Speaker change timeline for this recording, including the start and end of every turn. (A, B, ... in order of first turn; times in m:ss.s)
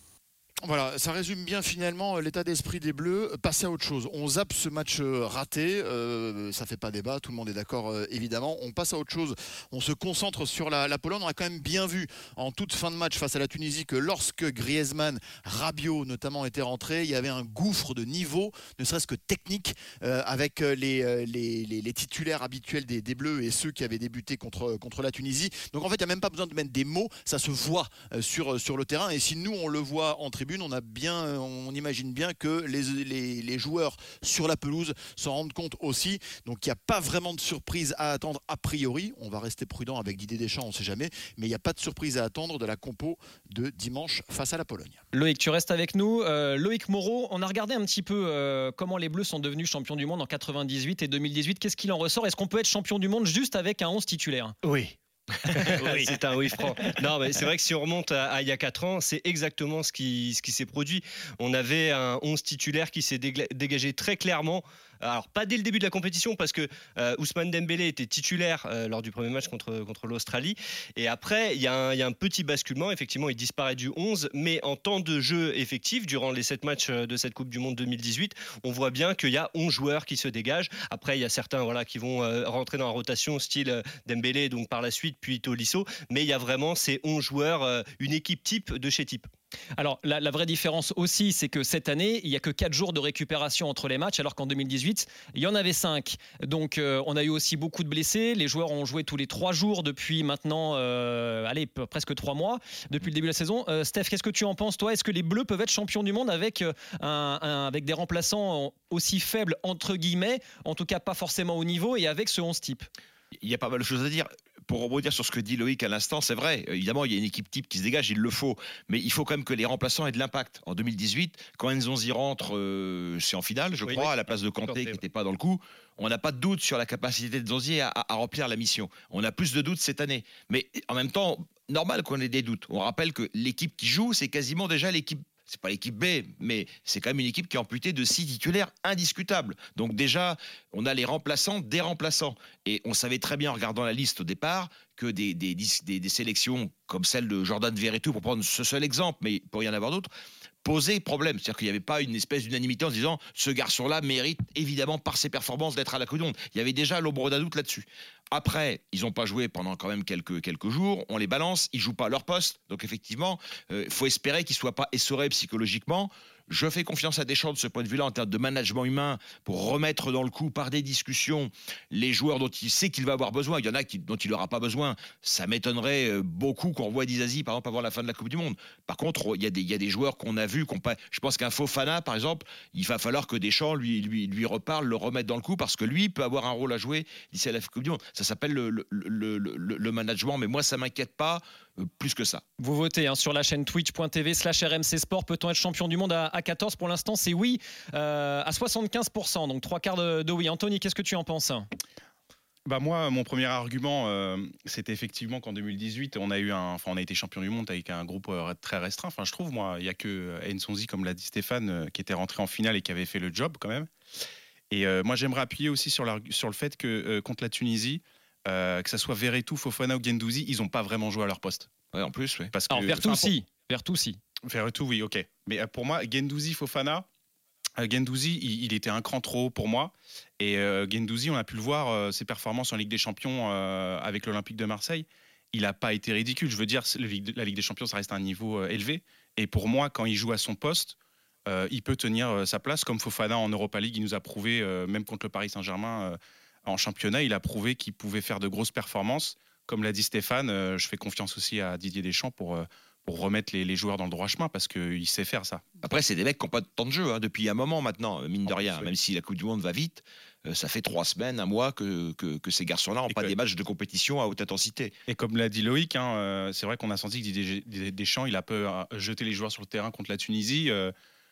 0:00.6-0:45.0 A
0:45.1-0:54.5 B
0:54.6-1:29.3 C
1:29.8-1:52.9 B
1:53.4-2:30.1 D
2:03.8-2:04.1 C
2:04.6-2:05.0 C
2:30.6-3:12.4 D
3:12.6-3:21.6 B
3:22.6-3:33.9 E
3:34.7-3:41.7 E
3:41.9-3:43.1 D
3:42.5-3:43.3 E
3:42.7-3:44.2 B
3:44.4-3:47.0 E
3:47.8-4:15.6 E
4:15.8-4:25.0 D
4:18.4-4:18.9 E
4:25.1-4:30.9 E